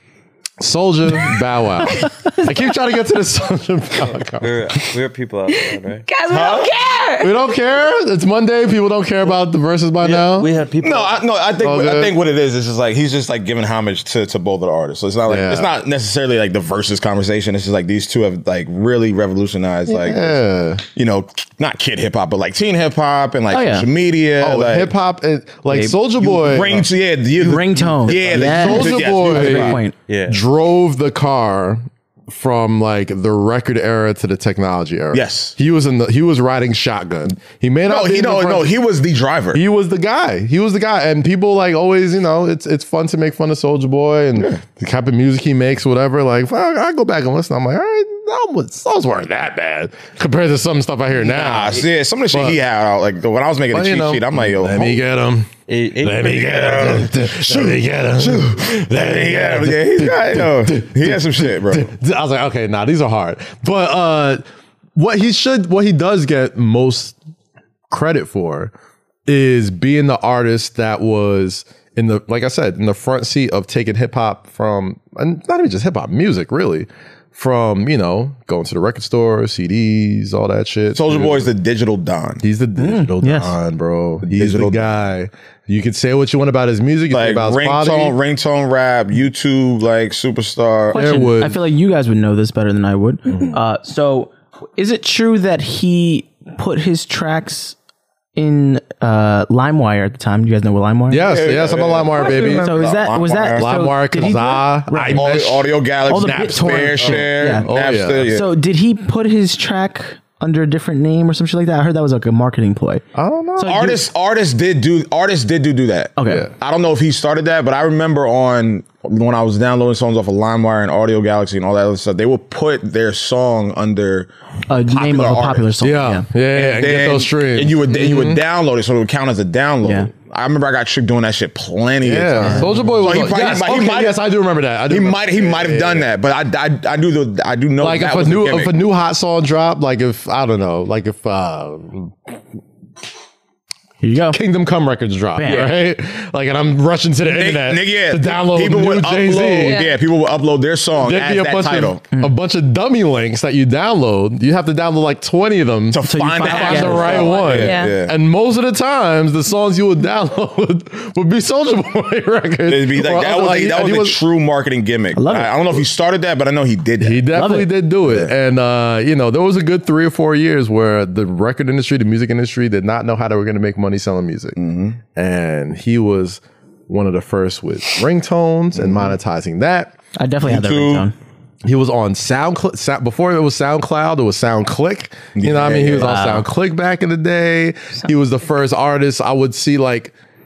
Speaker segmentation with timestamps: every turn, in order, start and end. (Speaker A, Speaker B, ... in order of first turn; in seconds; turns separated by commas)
Speaker A: 0.6-4.9, Speaker B: 2.0-2.6, Speaker C: 4.4-6.1, Speaker B: 5.5-7.3, Speaker D: 6.3-6.7, Speaker A: 7.2-10.5, Speaker C: 10.0-11.2, Speaker D: 10.8-20.4, Speaker A: 11.6-12.2, Speaker A: 15.3-15.7, Speaker A: 19.9-20.8, Speaker D: 20.9-24.9, Speaker E: 23.5-23.9, Speaker A: 24.4-26.9, Speaker E: 25.7-26.0, Speaker D: 26.2-29.8, Speaker E: 27.4-30.0, Speaker A: 28.3-38.8, Speaker C: 30.1-30.4, Speaker D: 35.1-35.5, Speaker D: 37.9-39.6, Speaker A: 39.5-52.6, Speaker D: 51.1-55.0, Speaker A: 53.7-64.4, Speaker C: 55.7-56.7, Speaker D: 56.3-61.9, Speaker A: 65.0-67.2, Speaker A: 67.9-68.7, Speaker A: 69.3-81.5, Speaker D: 80.9-82.4, Speaker A: 82.4-88.2, Speaker E: 82.8-83.6, Speaker D: 84.2-84.9, Speaker D: 87.1-91.0, Speaker A: 90.9-91.6, Speaker E: 90.9-97.8, Speaker E: 98.4-101.3, Speaker A: 101.1-102.7, Speaker D: 101.2-103.7, Speaker B: 102.1-102.9, Speaker E: 102.6-105.3, Speaker A: 103.6-108.3, Speaker D: 105.1-108.5, Speaker E: 106.1-107.7, Speaker E: 108.3-113.0, Speaker A: 113.2-114.0, Speaker E: 113.6-114.0, Speaker D: 113.7-125.7, Speaker E: 116.2-116.5, Speaker A: 116.3-116.5, Speaker E: 124.7-126.3, Speaker A: 125.8-128.4, Speaker D: 126.5-134.2, Speaker E: 129.8-130.1, Speaker A: 132.0-136.1, Speaker D: 134.9-138.7, Speaker A: 137.8-142.3, Speaker E: 144.0-144.4, Speaker A: 144.3-149.8, Speaker E: 145.4-145.7, Speaker D: 147.2-152.0, Speaker B: 149.6-150.0, Speaker A: 151.0-164.2, Speaker D: 155.9-158.2, Speaker E: 156.1-157.3, Speaker B: 157.4-157.9, Speaker D: 162.7-167.4, Speaker E: 165.2-165.6, Speaker A: 167.0-174.6, Speaker E: 167.3-167.7, Speaker D: 168.1-168.3, Speaker D: 174.6-175.0, Speaker A: 175.1-179.9, Speaker D: 178.8-179.2, Speaker E: 180.2-181.1, Speaker D: 180.4-181.1, Speaker A: 181.6-190.1, Speaker D: 185.4-186.2, Speaker E: 186.0-186.5